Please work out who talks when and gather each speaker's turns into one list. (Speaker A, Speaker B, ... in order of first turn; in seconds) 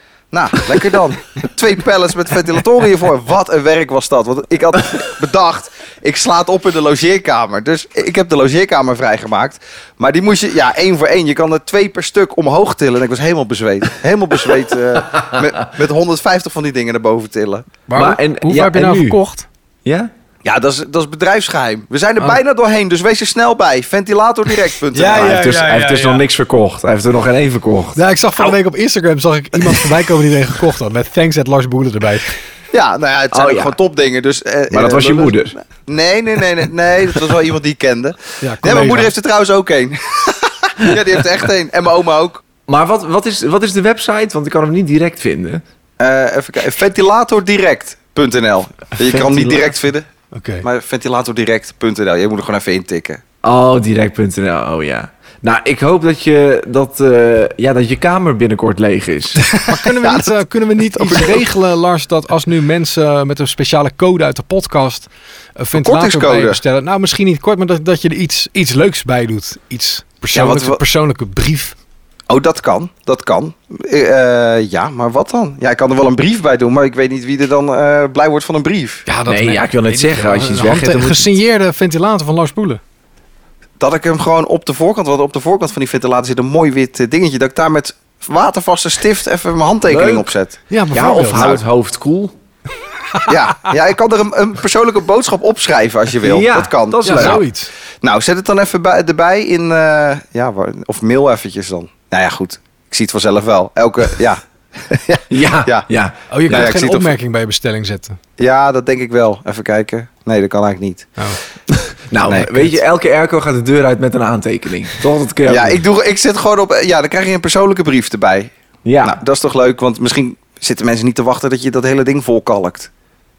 Speaker A: 0.3-17.7, 20.4-25.4, 32.7-42.4, 46.0-50.1, 50.6-53.2, 59.6-60.3, 61.0-61.5, 65.7-66.6, 70.3-70.8, 72.3-79.0, 83.8-90.5, 91.3-91.6, 93.2-97.4, 98.0-105.9, 106.5-107.1, 108.4-111.1, 112.3-112.7, 115.5-122.9
Speaker B: 17.9-19.4, 24.9-26.2, 27.9-32.3, 38.4-39.1, 50.3-50.7, 59.6-71.7, 79.1-82.8, 90.7-91.5, 97.0-97.7, 106.3-108.2
Speaker C: 17.9-19.2, 19.8-20.1, 25.1-28.0, 33.3-33.8, 34.7-35.5, 42.7-45.6, 53.4-59.5, 79.3-81.4, 89.9-90.3, 90.9-92.3, 96.2-97.4, 105.3-106.7, 112.1-115.8, 118.8-119.2